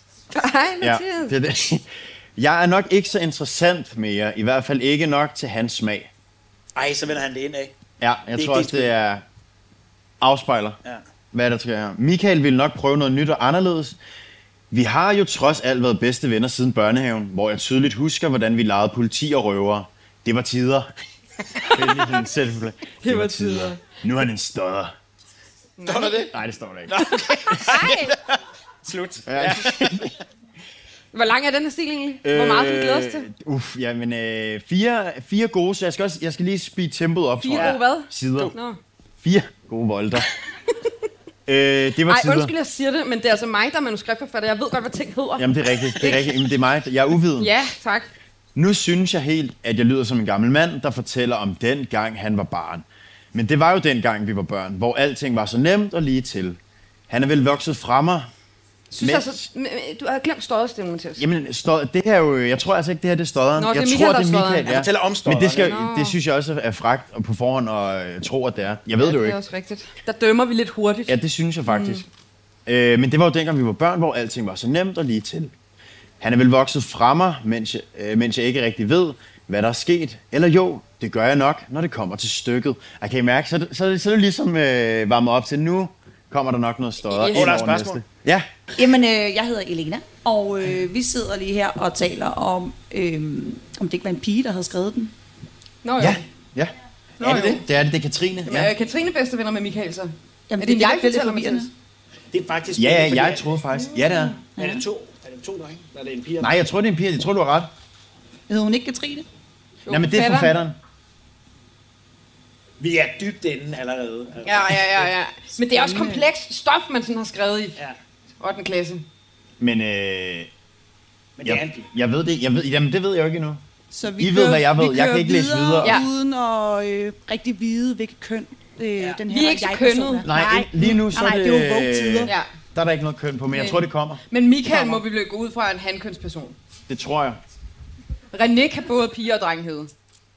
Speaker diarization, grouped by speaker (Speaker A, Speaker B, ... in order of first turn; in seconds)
Speaker A: 0.3-1.4, 23.0-23.8, 25.8-26.3, 27.0-28.2, 31.1-33.3, 37.4-38.8, 42.1-46.3, 47.4-48.1, 58.9-61.2, 63.6-64.7, 65.6-66.2, 69.0-71.2, 71.7-72.0, 87.1-87.6, 95.8-96.2, 97.2-97.6, 98.5-101.7, 103.9-104.3, 109.9-110.6, 114.5-117.8, 118.4-119.1, 129.3-130.3, 133.5-136.6, 138.3-139.9
Speaker B: 0.8-6.1, 8.0-9.2, 10.2-10.8, 11.3-14.0, 14.7-20.9, 21.7-24.9, 26.3-27.0, 27.5-27.8, 29.3-30.1, 32.2-38.5, 39.2-40.3, 41.5-42.5, 45.4-47.5, 48.5-56.6, 57.1-58.3, 59.0-59.4, 61.2-69.4, 71.1-72.1, 72.7-75.5, 76.2-88.5, 96.0-98.7, 102.8-104.4, 106.4-107.7, 109.9-110.8, 119.6-120.5, 121.4-123.6, 124.2-126.0, 130.2-134.2, 136.9-137.4
Speaker C: 6.8-7.7, 8.3-8.9, 25.9-26.3, 26.9-30.1, 64.7-65.7, 87.3-88.0, 102.3-103.5, 104.6-106.6, 112.8-115.1, 121.4-121.9, 129.0-129.2
Speaker D: 88.8-95.1, 100.5-101.7, 104.6-104.8, 108.5-109.3, 115.6-116.2, 123.9-132.3